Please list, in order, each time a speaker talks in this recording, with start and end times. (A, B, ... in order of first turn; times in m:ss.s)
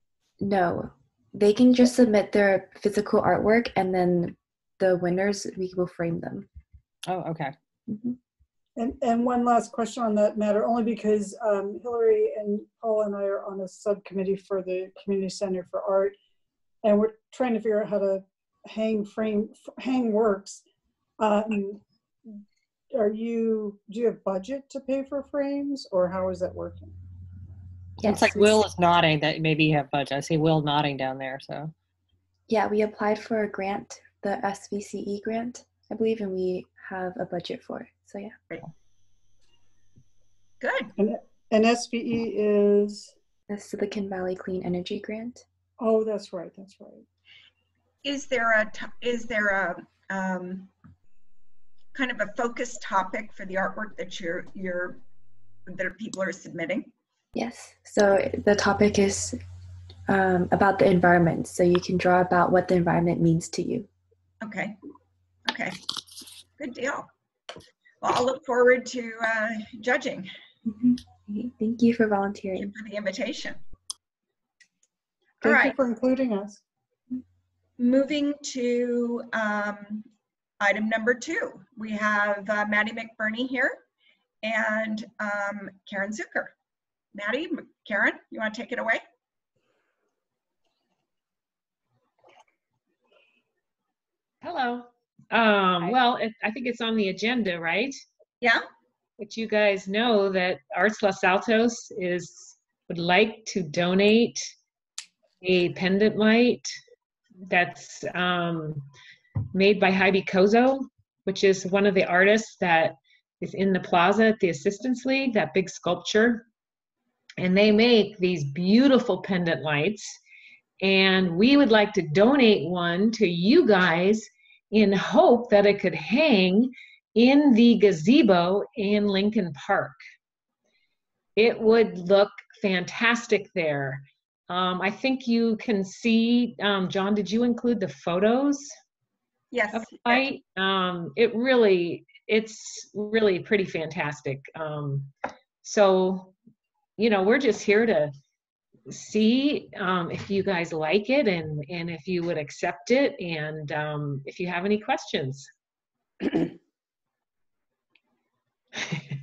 0:00.4-0:06.5 A
0:07.1-0:07.5 B
0:07.9-0:08.2 A
0:08.8-0:16.2 C
0:16.8-0:20.6 C
0:21.2-0:21.8 C
0:22.9-0:26.9 C
0:28.0-0:28.6 A
0:28.0-0:31.7 B
0:32.5-0:38.4 A
0:40.6-0:40.9 D
0:41.0-0:43.1 C
0:43.5-0:45.4 A
0:45.8-0:47.0 C
0:48.0-0:50.7 D
0:51.9-0:55.0 D
0:55.7-0:56.9 D
0:57.4-0:59.4 A
1:00.1-1:03.9 A
1:04.4-1:04.8 D
1:05.5-1:05.8 D
1:06.6-1:07.1 D
1:08.0-1:10.3 D
1:10.6-1:12.7 A
1:12.6-1:13.6 D
1:15.4-1:16.6 C
1:15.4-1:15.8 D
1:17.8-1:20.1 D
1:20.6-1:23.8 D
1:24.4-1:26.5 D
1:27.1-1:29.0 D
1:34.4-1:38.0 E
1:39.2-1:44.5 E
1:45.4-1:46.7 E
1:47.5-1:48.9 E
1:49.5-1:56.5 E
1:57.4-2:00.2 E
2:00.8-2:10.0 E
2:11.4-2:18.7 E
2:19.5-2:20.2 D
2:19.7-2:26.4 E
2:27.0-2:28.1 E
2:28.9-2:35.5 E